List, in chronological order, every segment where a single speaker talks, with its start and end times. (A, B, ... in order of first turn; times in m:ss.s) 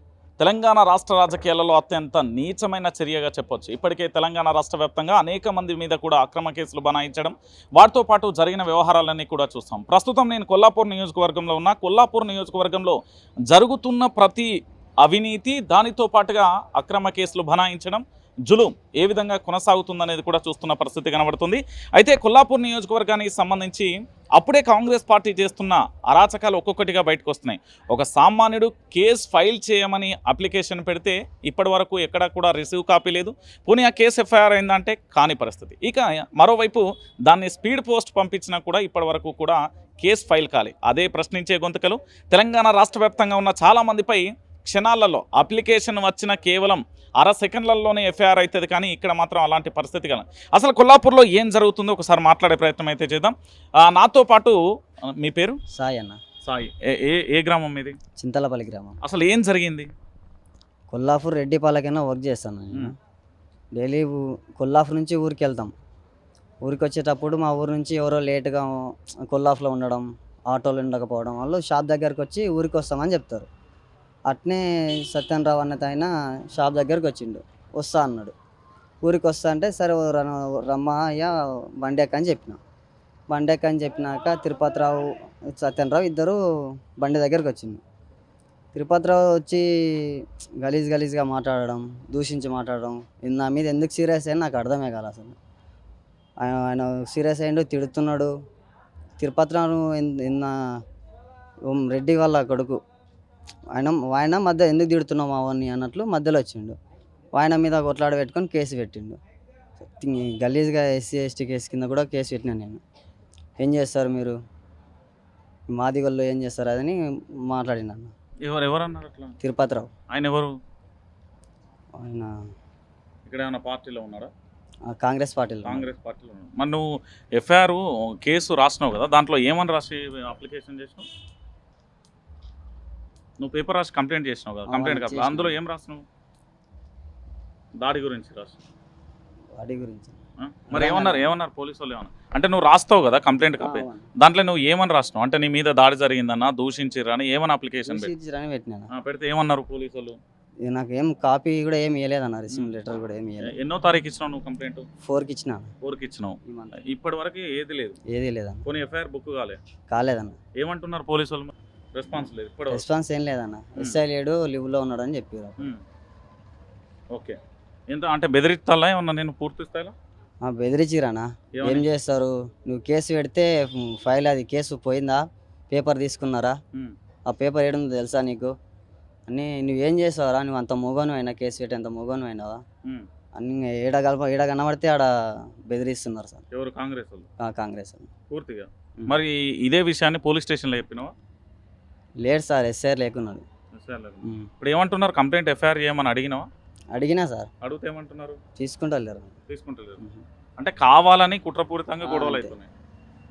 0:00.4-0:13.0 A
0:13.5-0:14.5 A
0:15.0-0:54.6 A
0:55.1-0:55.6 A
0:55.7-0:56.2 B
0:56.4-0:58.0 A
0:58.2-0:59.0 B
0:59.0-0:59.9 A
1:00.9-1:03.0 B
1:03.8-1:05.7 B
1:06.6-1:13.5 B
1:14.3-1:18.4 B
1:19.0-1:22.6 B
1:23.3-1:26.4 B
1:27.0-1:27.8 B
1:28.7-1:35.4 B
1:36.4-1:38.3 B
1:39.2-1:40.5 B
1:41.7-1:42.8 B
1:43.8-1:46.8 B
1:47.4-1:49.2 B
1:49.8-1:52.8 B
1:53.6-1:54.4 B
1:55.7-1:58.1 B
1:58.4-1:59.4 A
1:59.4-1:59.9 B
2:00.1-2:00.6 A
2:02.0-2:02.4 B
2:03.3-2:04.3 A
2:04.9-2:05.9 B
2:05.6-2:11.1 A
2:13.4-2:16.0 A
2:14.7-2:15.6 B
2:17.8-2:18.6 A
2:19.5-2:20.2 B
2:20.4-2:28.1 A
2:20.7-2:21.3 B
2:23.6-2:24.1 B
2:27.9-2:28.9 B
2:28.9-2:30.2 A
2:30.6-2:33.5 B
2:33.4-2:34.9 A
2:35.0-2:35.7 B
2:35.8-2:38.0 A
2:36.4-2:36.8 B
2:38.1-2:38.7 B
2:38.6-2:39.6 A
2:39.9-2:40.4 B
2:40.6-2:42.8 A
2:42.7-2:45.7 B
2:47.1-2:47.4 A
2:47.9-2:50.0 A
2:50.4-2:56.6 B
2:51.5-2:51.9 A
2:57.3-2:58.5 B
2:59.3-3:02.6 B
3:03.4-3:05.1 B
3:05.7-3:06.4 B
3:06.5-3:07.3 A
3:07.4-3:08.1 B
3:08.3-3:11.1 A
3:12.2-3:13.5 B
3:13.7-3:16.5 A
3:14.2-3:14.5 B
3:16.9-3:17.5 B
3:17.6-3:18.4 A
3:18.6-3:19.4 B
3:19.5-3:20.0 A
3:20.6-3:22.7 A
3:22.0-3:22.6 B